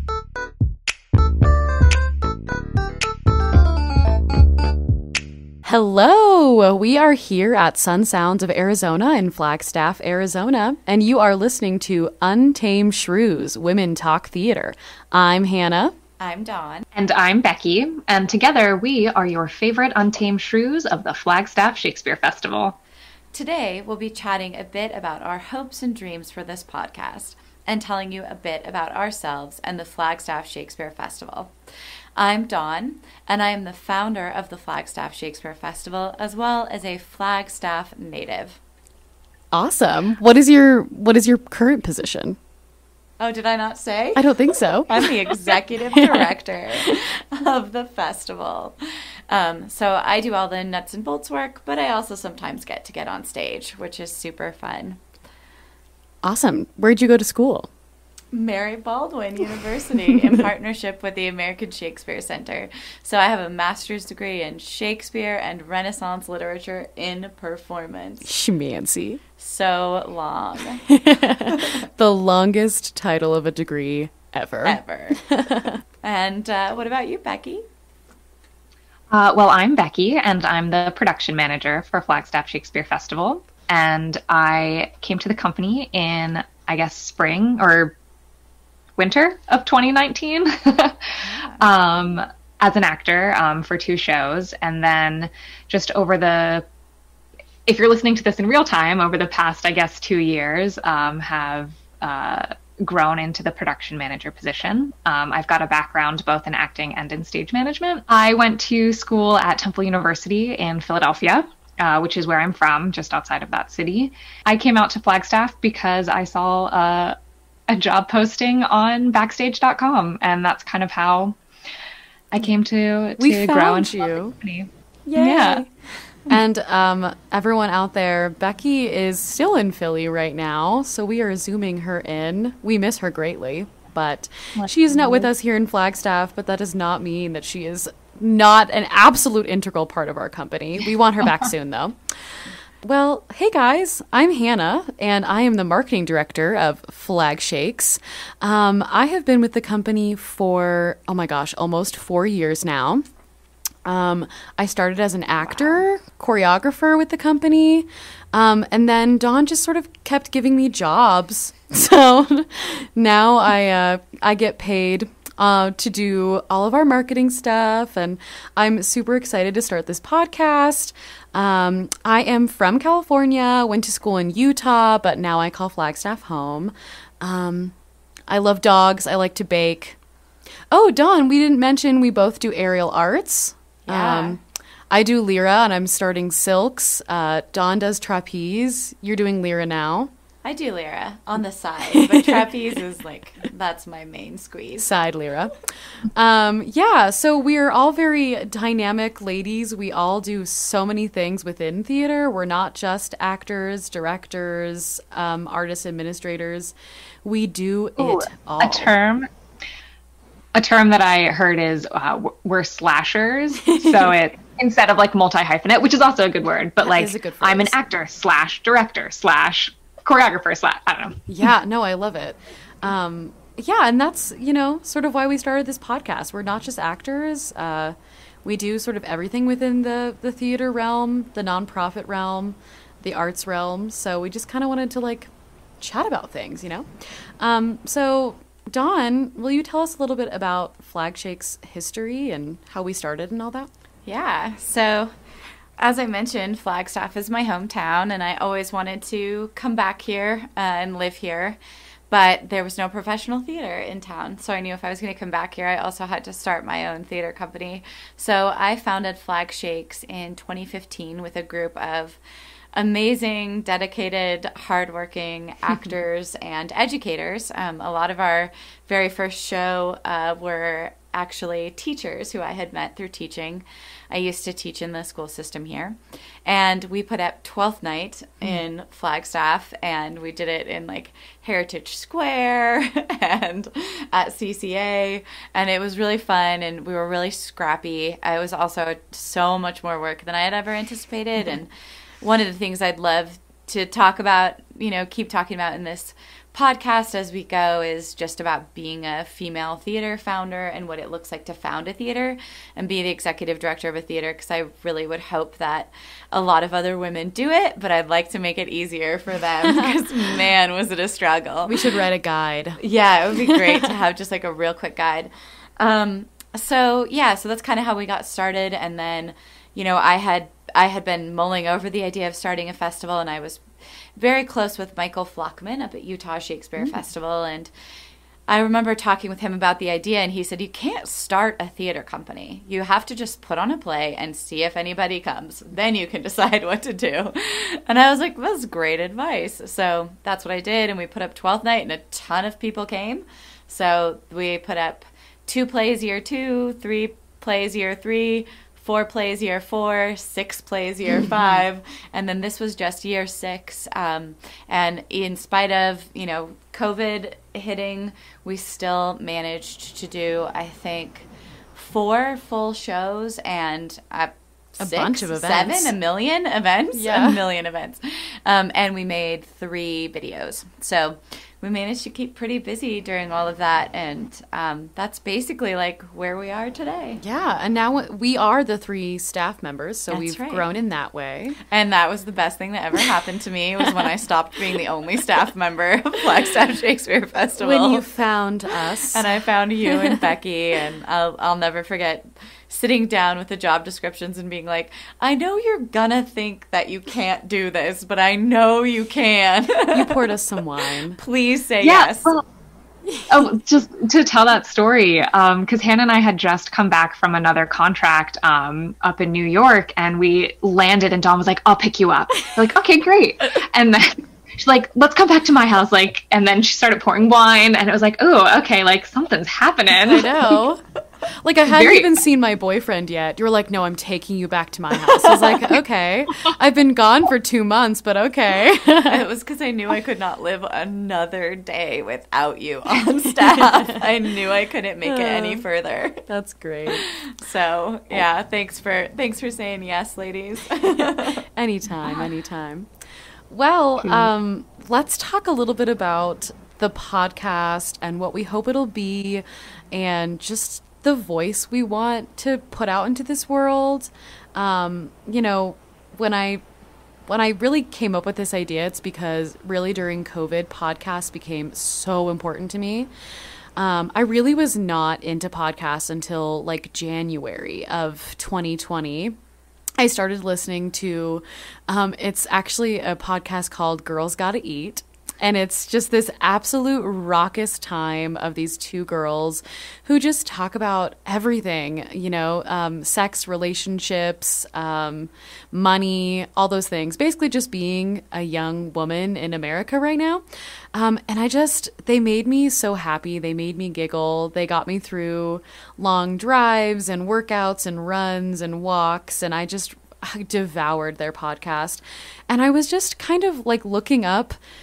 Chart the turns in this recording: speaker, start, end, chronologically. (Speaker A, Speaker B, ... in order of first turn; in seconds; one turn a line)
Speaker A: 5.6-15.9
Speaker B: 16.2-16.9
Speaker C: 16.9-22.8
Speaker B: 23.3-31.5
Speaker B: 32.2-38.6
Speaker A: 39.5-42.4
Speaker B: 43.2-48.8
Speaker A: 44.2-45.1
Speaker A: 46.0-47.0
Speaker B: 49.3-55.0
Speaker A: 56.2-57.7
Speaker B: 58.3-68.3
Speaker A: 68.2-69.2
Speaker B: 69.4-71.8
Speaker A: 70.9-75.8
Speaker B: 74.6-75.2
Speaker B: 76.0-77.6
Speaker C: 79.1-88.0
Speaker C: 89.0-96.7
Speaker B: 91.2-91.6
Speaker C: 97.7-117.2
Speaker C: 117.7-121.4
Speaker C: 122.3-125.7
Speaker A: 123.2-124.3
Speaker A: 125.1-125.7
Speaker A: 126.3-153.0
Speaker C: 134.6-135.3
Speaker A: 153.8-177.8
Speaker A: 178.3-180.0
Speaker A: 180.7-184.4
Speaker B: 183.9-184.4
Speaker A: 184.9-190.1
Speaker B: 190.4-194.9
Speaker A: 191.9-192.3
Speaker A: 194.8-208.9
Speaker C: 208.0-209.3
Speaker C: 210.6-221.3
Speaker A: 213.7-214.1
Speaker A: 216.8-217.8
Speaker A: 221.3-236.9
Speaker A: 237.4-243.7
Speaker B: 244.1-245.1
Speaker B: 245.8-251.6
Speaker B: 252.1-262.2
Speaker B: 262.8-291.7
Speaker B: 292.2-311.8
Speaker A: 309.7-310.0
Speaker A: 311.7-312.8
Speaker B: 312.8-323.6
Speaker A: 313.5-313.8
Speaker B: 324.2-327.7
Speaker B: 328.5-377.2
Speaker A: 364.8-365.9
Speaker A: 366.9-367.4
Speaker A: 377.2-381.6
Speaker B: 380.1-380.7
Speaker B: 381.7-388.1
Speaker A: 387.6-389.2
Speaker B: 389.1-400.3
Speaker A: 399.9-401.2
Speaker B: 401.1-402.4
Speaker C: 401.8-402.4
Speaker A: 403.1-403.4
Speaker C: 403.3-420.6
Speaker A: 420.0-420.8
Speaker A: 421.4-429.2
Speaker C: 421.7-422.1
Speaker B: 425.2-425.8
Speaker B: 429.0-436.2
Speaker A: 435.1-435.6
Speaker A: 436.3-437.0
Speaker B: 436.9-441.4
Speaker A: 440.9-442.9
Speaker A: 443.5-456.6
Speaker A: 457.3-463.1
Speaker A: 463.8-469.4
Speaker A: 470.0-504.6